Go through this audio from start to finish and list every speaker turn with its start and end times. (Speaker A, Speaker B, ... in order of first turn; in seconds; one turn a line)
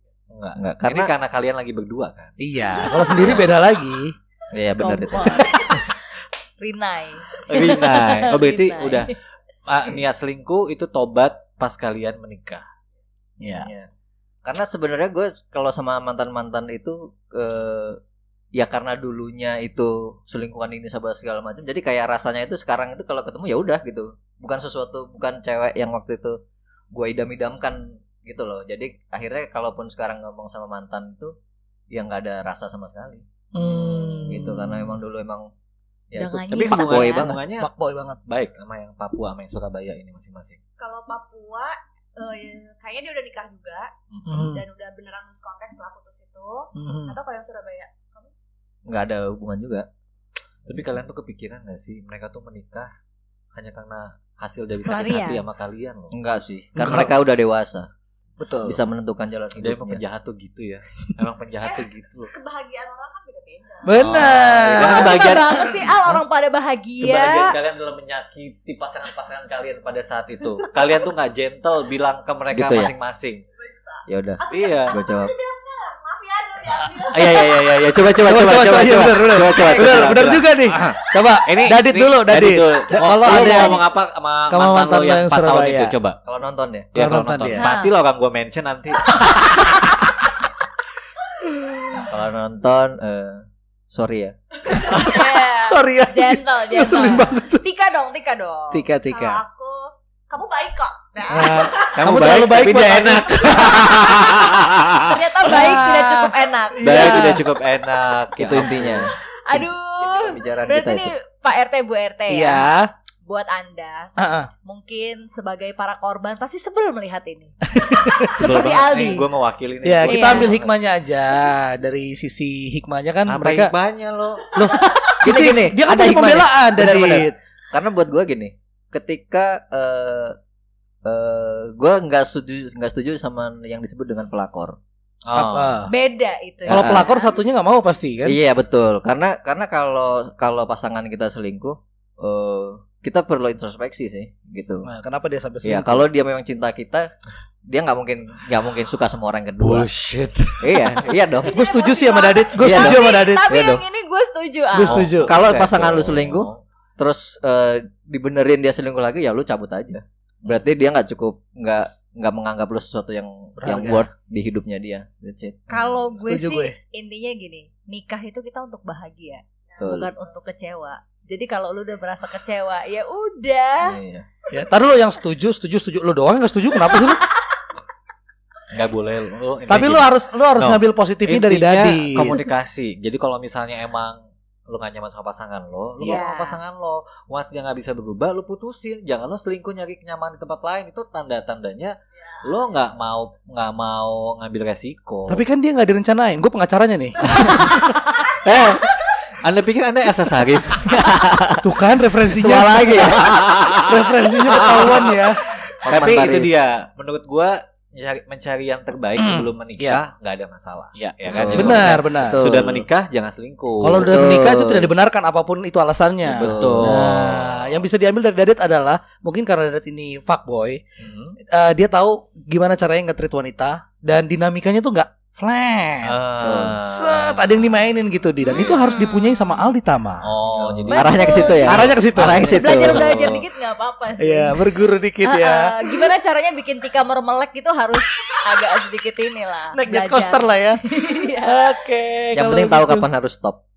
Speaker A: 0.3-2.3
Speaker B: 0.6-1.1
Speaker C: 2.4-4.1
Speaker D: 3.0-3.3
Speaker B: 4.5-5.5
Speaker E: 4.8-5.9
Speaker D: 5.4-5.7
Speaker E: 6.6-9.1
Speaker A: 7.5-9.1
Speaker A: 9.7-12.7
Speaker C: 13.4-13.7
Speaker B: 13.4-13.9
Speaker B: 14.4-18.0
Speaker B: 18.6-26.4
Speaker B: 26.9-31.4
Speaker B: 31.9-33.2
Speaker C: 33.5-35.0
Speaker A: 33.7-34.2
Speaker B: 34.3-35.5
Speaker B: 36.1-37.4
Speaker E: 36.2-37.4
Speaker A: 36.5-37.7
Speaker C: 37.6-38.2
Speaker A: 38.3-40.6
Speaker D: 40.8-48.3
Speaker A: 44.1-44.4
Speaker C: 44.3-44.6
Speaker C: 46.8-47.2
Speaker B: 48.9-49.9
Speaker A: 50.7-52.9
Speaker A: 53.5-56.1
Speaker E: 54.8-55.5
Speaker B: 56.1-57.9
Speaker C: 56.8-57.1
Speaker C: 58.4-58.8
Speaker B: 58.6-60.0
Speaker A: 59.6-62.3
Speaker D: 61.6-64.1
Speaker C: 63.9-65.2
Speaker A: 64.0-66.2
Speaker E: 64.7-67.5
Speaker A: 67.0-73.4
Speaker B: 72.5-72.9
Speaker D: 73.6-77.7
Speaker B: 74.1-75.3
Speaker A: 74.5-75.0
Speaker A: 77.1-86.2
Speaker C: 78.2-83.8
Speaker B: 79.3-80.2
Speaker B: 80.7-81.0
Speaker E: 83.2-83.6
Speaker C: 84.5-85.9
Speaker B: 86.3-86.9
Speaker C: 87.0-87.7
Speaker A: 87.0-89.9
Speaker E: 87.5-87.9
Speaker C: 89.2-89.9
Speaker C: 91.5-92.1
Speaker B: 92.1-94.3
Speaker C: 94.7-97.7
Speaker D: 94.9-95.6
Speaker E: 94.9-98.8
Speaker C: 98.7-99.4
Speaker D: 99.1-102.0
Speaker C: 101.3-103.9
Speaker A: 102.0-105.2
Speaker D: 103.4-104.2
Speaker E: 105.0-107.3
Speaker C: 105.5-107.5
Speaker A: 106.8-109.1
Speaker B: 108.4-111.1
Speaker E: 109.5-112.7
Speaker C: 112.3-112.9
Speaker E: 113.3-114.1
Speaker C: 114.2-114.5
Speaker E: 114.6-117.6
Speaker C: 117.7-118.3
Speaker E: 118.2-119.3
Speaker A: 118.3-120.8
Speaker C: 119.8-123.7
Speaker E: 120.0-120.6
Speaker A: 123.3-124.5
Speaker C: 124.5-127.4
Speaker B: 125.2-130.4
Speaker B: 131.1-134.8
Speaker A: 135.3-135.8
Speaker C: 135.3-135.9
Speaker E: 135.9-137.3
Speaker C: 136.7-138.4
Speaker B: 136.7-137.1
Speaker B: 138.2-144.9
Speaker C: 144.8-146.1
Speaker B: 145.6-147.1
Speaker B: 147.7-149.9
Speaker A: 149.6-150.9
Speaker B: 150.6-151.5
Speaker C: 151.5-153.5
Speaker D: 151.5-152.8
Speaker B: 152.6-153.8
Speaker E: 152.7-155.0
Speaker C: 154.7-155.3
Speaker A: 154.9-156.6
Speaker B: 155.2-165.6
Speaker C: 163.6-164.1
Speaker A: 165.7-166.0
Speaker E: 165.7-174.0
Speaker C: 166.2-166.8
Speaker D: 169.7-170.3
Speaker B: 169.8-170.1
Speaker B: 173.8-174.3
Speaker C: 174.5-177.3
Speaker A: 178.7-195.4
Speaker C: 179.7-182.4
Speaker E: 186.0-186.6
Speaker D: 192.2-192.8
Speaker C: 195.3-197.2
Speaker B: 197.4-197.7
Speaker D: 198.2-199.2
Speaker B: 198.4-198.8
Speaker A: 198.4-198.8
Speaker A: 199.3-201.1
Speaker B: 200.9-201.7
Speaker C: 201.6-206.4
Speaker B: 202.3-203.4
Speaker A: 202.9-214.2
Speaker B: 205.9-206.5
Speaker C: 209.2-210.0
Speaker B: 211.3-212.9
Speaker C: 211.4-212.4
Speaker C: 213.8-220.8
Speaker B: 213.9-214.9
Speaker A: 216.3-217.6
Speaker B: 216.3-216.9
Speaker A: 221.0-221.3
Speaker C: 221.5-226.2
Speaker A: 226.0-227.5
Speaker B: 226.4-226.8
Speaker C: 226.8-230.9
Speaker E: 228.5-229.7
Speaker A: 230.2-231.3
Speaker E: 230.9-241.7
Speaker B: 231.0-233.4
Speaker C: 231.6-232.6
Speaker A: 232.2-233.4
Speaker C: 234.2-236.1
Speaker C: 239.7-243.1
Speaker B: 242.3-243.6